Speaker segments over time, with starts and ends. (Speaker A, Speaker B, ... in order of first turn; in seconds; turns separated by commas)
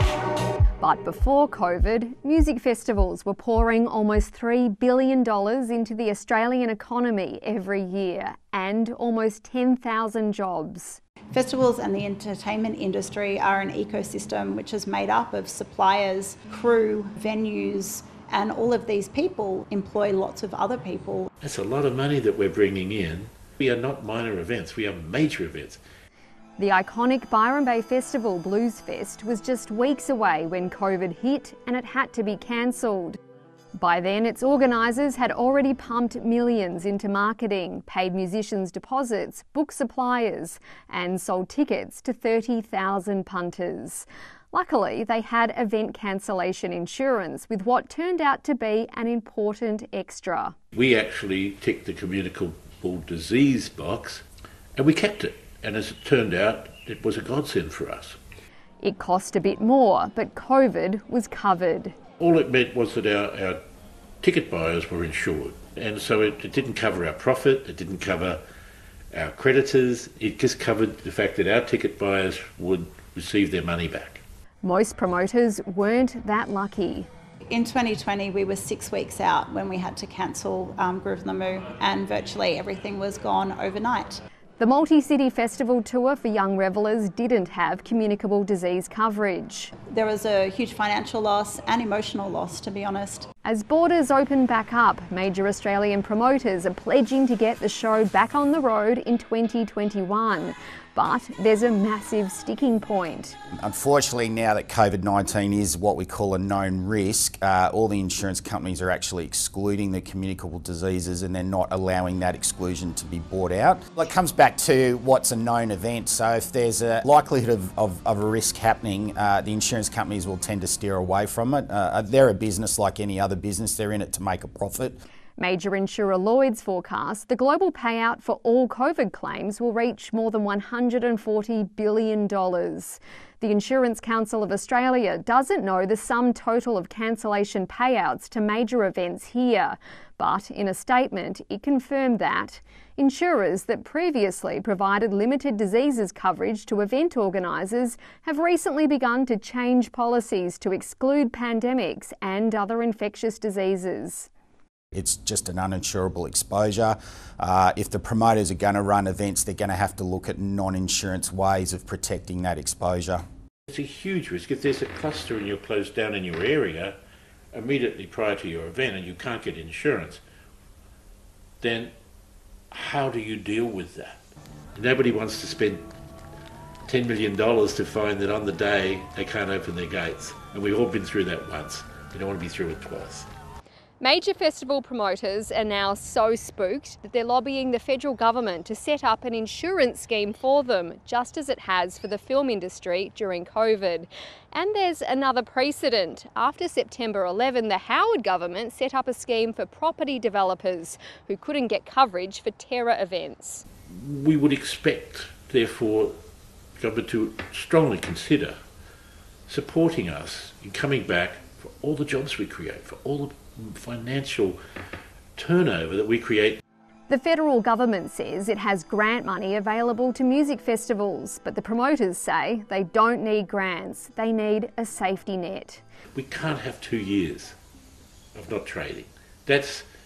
Speaker A: 0.8-11.0, Speaker B: 11.3-21.3, Speaker C: 21.4-25.8, Speaker A: 26.6-33.2, Speaker A: 33.8-50.6, Speaker C: 50.7-54.2, Speaker C: 54.8-58.2, Speaker A: 58.8-62.0, Speaker C: 62.2-63.6, Speaker C: 64.2-68.4, Speaker C: 69.1-74.2, Speaker A: 74.6-77.1, Speaker B: 77.5-84.2, Speaker A: 84.6-89.7, Speaker B: 89.9-93.3, Speaker A: 93.5-103.4, Speaker D: 103.6-125.0, Speaker A: 125.4-154.3, Speaker D: 154.9-163.2, Speaker C: 163.7-167.0, Speaker C: 167.5-170.2, Speaker C: 171.6-171.9, Speaker C: 172.7-174.2, Speaker C: 174.8-175.8, Speaker C: 176.9-183.3, Speaker A: 184.0-203.6, Speaker C: 203.9-206.2, Speaker C: 206.8-208.6, Speaker C: 209.5-214.6, Speaker C: 215.4-216.6, Speaker A: 217.1-225.8, Speaker C: 226.1-227.6, Speaker C: 228.3-229.9